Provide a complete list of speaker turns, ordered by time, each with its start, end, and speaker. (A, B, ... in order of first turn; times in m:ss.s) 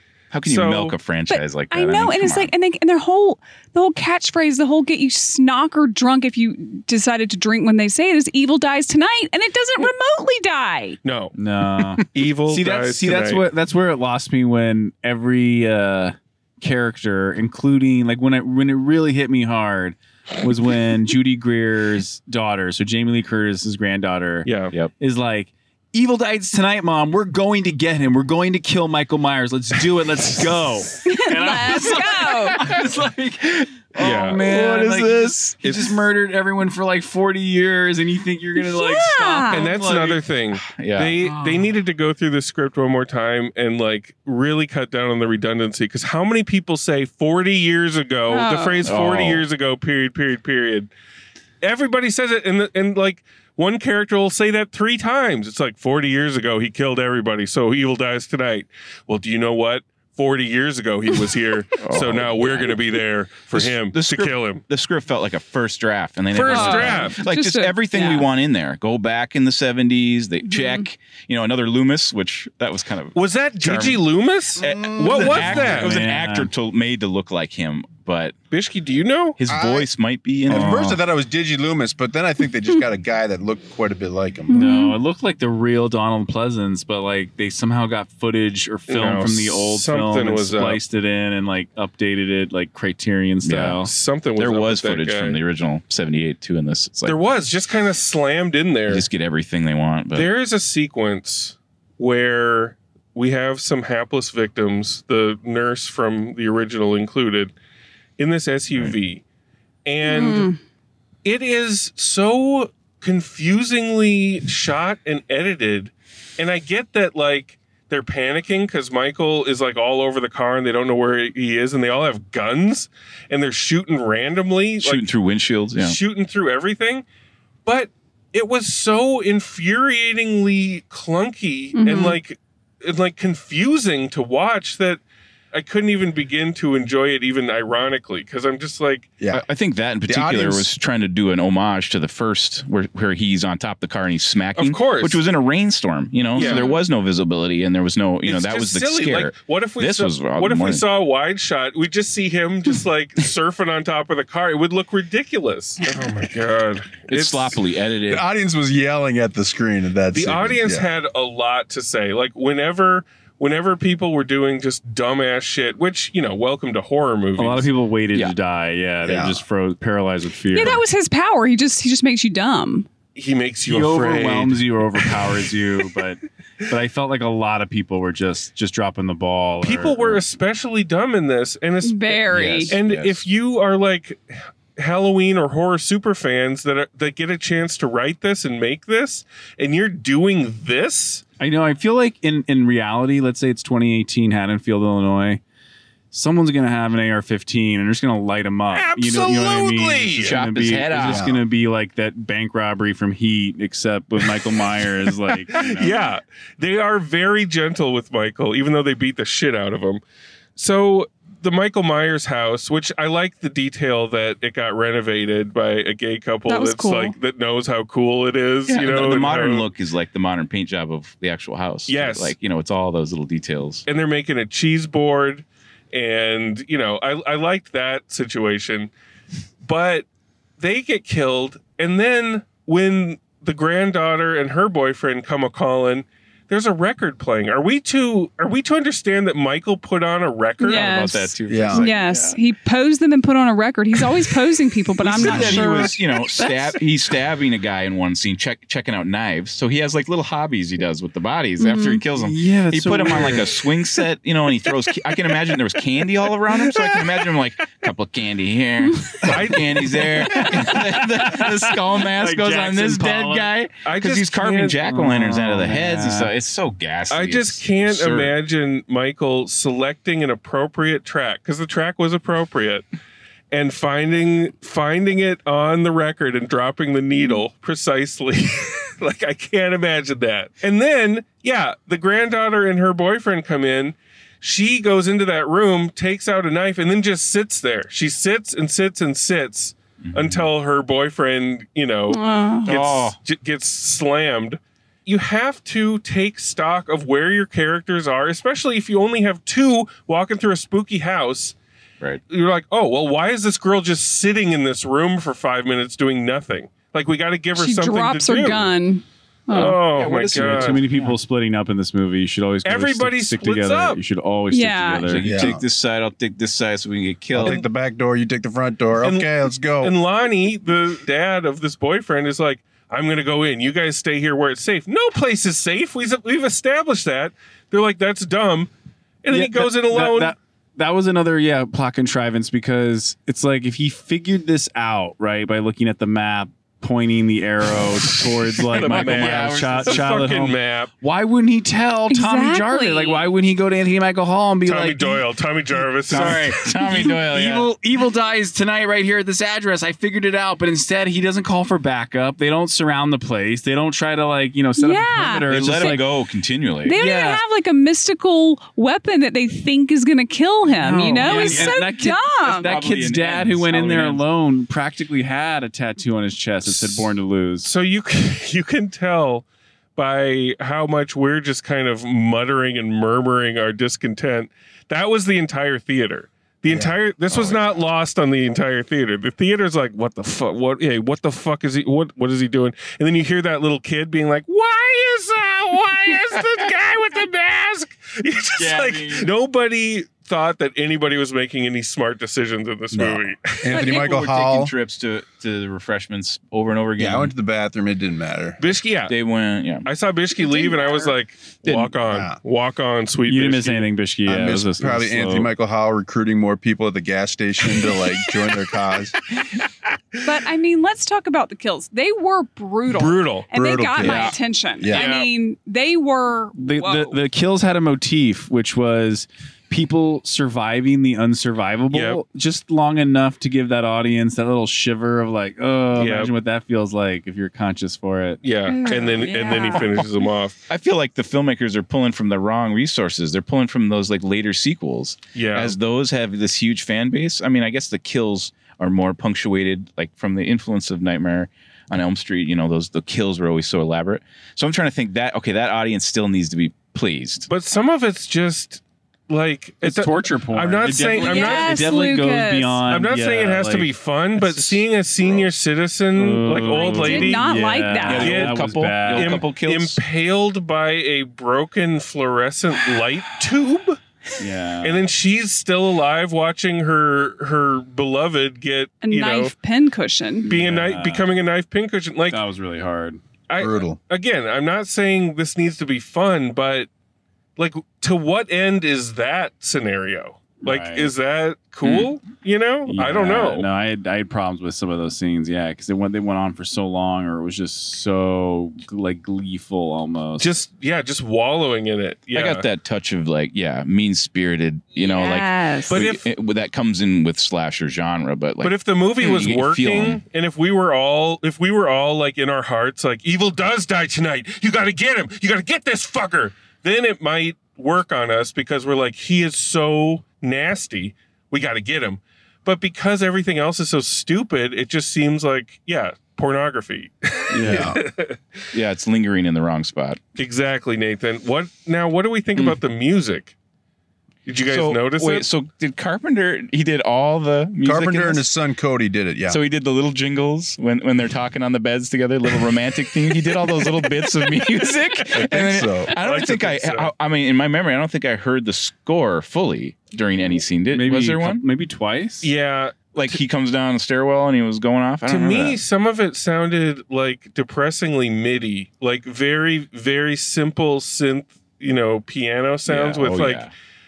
0:00.3-0:02.5 A
0:00.4-0:01.0 B
0:01.3-0:11.0 C
0:11.0-0:11.3 B
0:11.4-0:24.5 D
0:12.1-0:13.4 B
0:24.4-0:24.7 B
0:25.0-0:40.2 D
0:31.0-0:32.6 C
0:33.9-0:36.0 A
0:34.0-0:34.4 B
0:38.6-0:39.7 C
0:39.5-0:50.9 B
0:40.6-0:41.1 A
0:41.2-0:41.7 D
0:48.3-0:48.8 C
0:48.8-0:49.4 A
0:51.6-1:04.6 B
1:01.8-1:02.8 A
1:03.5-1:14.0 A
1:06.3-1:07.2 B
1:06.5-1:08.3 C
1:10.4-1:10.8 C
1:13.1-1:16.0 B
1:14.6-1:15.9 E
1:14.6-1:18.4 A
1:15.6-1:16.5 D
1:18.5-1:19.4 B
1:19.4-1:21.0 A
1:19.5-1:19.9 E
1:20.4-1:24.8 E
1:20.5-1:21.0 D
1:24.5-1:25.0 C
1:24.5-1:33.9 D
1:28.9-1:30.8 B
1:33.4-1:33.8 A
1:33.8-1:35.4 B
1:34.4-1:37.2 A
1:37.0-1:39.0 B
1:38.9-1:40.3 A
1:40.1-1:47.5 B
1:48.2-1:49.2 B
1:49.8-1:50.5 B
1:50.0-1:50.6 C
1:51.2-2:05.1 B
2:04.8-2:06.0 A
2:05.8-2:07.0 B
2:07.6-2:15.0 B
2:11.7-2:12.2 C
2:15.5-2:19.1 B
2:19.2-2:19.4 E
2:19.3-2:30.8 A
2:20.0-2:20.7 E
2:24.5-2:25.2 B
2:26.3-2:26.7 B
2:26.3-2:26.8 C
2:28.2-2:37.6 B
2:37.1-2:38.2 A
2:38.1-2:40.9 E
2:40.1-2:47.7 B
2:47.4-2:50.8 D
2:49.0-2:49.4 E
2:50.5-2:52.9 C
2:53.1-2:55.1 B
2:53.6-3:00.2 D
2:59.6-3:11.2 B
3:01.8-3:02.8 C
3:02.3-3:03.2 A
3:11.4-3:15.4 D
3:16.1-3:25.9 D
3:18.7-3:20.4 B
3:20.2-3:21.2 A
3:20.9-3:21.4 E
3:25.5-3:30.0 B
3:30.6-3:39.7 B
3:36.5-3:37.2 C
3:38.7-3:43.8 A
3:41.9-3:42.3 B
3:43.9-3:48.9 B
3:49.6-3:50.0 B
3:50.6-4:01.0 B
4:00.6-4:06.8 C
4:00.6-4:02.4 A
4:01.5-4:01.9 E
4:05.0-4:28.3 A
4:05.2-4:05.9 D
4:11.6-4:12.0 C
4:12.1-4:13.5 D
4:19.2-4:20.1 B
4:20.3-4:23.5 D
4:23.8-4:24.8 B
4:24.8-4:26.3 D
4:27.1-4:32.8 B
4:33.5-5:01.6 B
4:50.0-4:50.5 A
4:52.1-4:52.7 C
4:52.6-4:53.2 A
5:02.3-5:08.7 B
5:07.6-5:09.8 C
5:09.5-5:10.8 B
5:09.8-5:11.2 A
5:10.3-5:15.5 D
5:12.6-5:14.0 B
5:14.5-5:15.1 C
5:15.0-5:17.6 A
5:15.2-5:15.6 E
5:17.3-5:19.9 E
5:19.0-5:28.7 B
5:29.2-5:30.3 B
5:29.3-5:45.2 D
5:38.6-5:40.9 B
5:38.8-5:40.2 A
5:42.1-5:43.3 C
5:44.6-5:46.4 B
5:46.1-5:47.7 A
5:46.1-5:56.0 D
5:54.8-5:56.0 C
5:55.5-5:57.0 A
5:56.8-6:02.7 C
5:56.9-5:57.4 D
6:00.7-6:07.7 D
6:01.2-6:01.8 A
6:02.6-6:04.2 A
6:06.7-6:06.9 A
6:07.6-6:33.8 B
6:16.7-6:16.9 E
6:17.3-6:17.8 A
6:28.6-6:29.3 A
6:32.9-6:34.7 E
6:33.7-6:37.3 A
6:37.0-6:38.6 E
6:38.6-6:39.1 B
6:39.1-6:39.9 A
6:39.8-6:43.9 B
6:40.4-6:41.2 C
6:41.6-6:41.9 A
6:42.1-6:42.4 E
6:43.3-6:45.5 D
6:44.3-6:49.1 E
6:50.2-6:57.2 C
6:52.9-6:53.5 B
6:53.5-6:55.1 E
6:54.0-6:54.4 A
6:54.9-6:55.3 B
6:56.6-7:08.4 D
7:01.9-7:02.2 B
7:06.0-7:06.3 B
7:08.4-7:10.6 B
7:08.7-7:10.0 C
7:10.7-7:27.5 A
7:15.3-7:15.7 B
7:27.5-7:31.9 B
7:29.8-7:33.9 D
7:31.0-7:32.8 C
7:32.9-7:37.5 B
7:34.4-7:35.4 A
7:36.1-7:39.4 D
7:36.6-7:38.4 C
7:38.0-7:40.0 A
7:38.2-7:44.0 B
7:44.4-7:45.0 D
7:44.8-7:49.5 B
7:49.0-7:50.5 C
7:50.4-7:51.3 D
7:50.5-7:52.4 B
7:52.3-7:53.2 D
7:53.5-7:56.9 B
7:53.6-7:54.0 E
7:57.6-8:03.7 B
8:00.6-8:01.1 D
8:01.8-8:02.1 A
8:02.8-8:10.5 D
8:10.4-8:12.7 B
8:12.3-8:20.2 A
8:15.0-8:16.0 C
8:15.9-8:16.2 B
8:18.6-8:38.4 B
8:37.5-8:37.9 D
8:37.6-8:38.0 E
8:38.7-8:40.2 A
8:40.4-8:43.5 B
8:44.4-8:45.4 B
8:44.7-8:48.4 A
8:47.8-8:49.6 E
8:49.5-9:01.6 A
8:55.3-8:57.1 B
8:55.5-8:56.1 E
9:00.9-9:02.5 D
9:02.4-9:03.4 B
9:03.1-9:05.8 A
9:05.2-9:13.6 B
9:12.9-9:13.7 A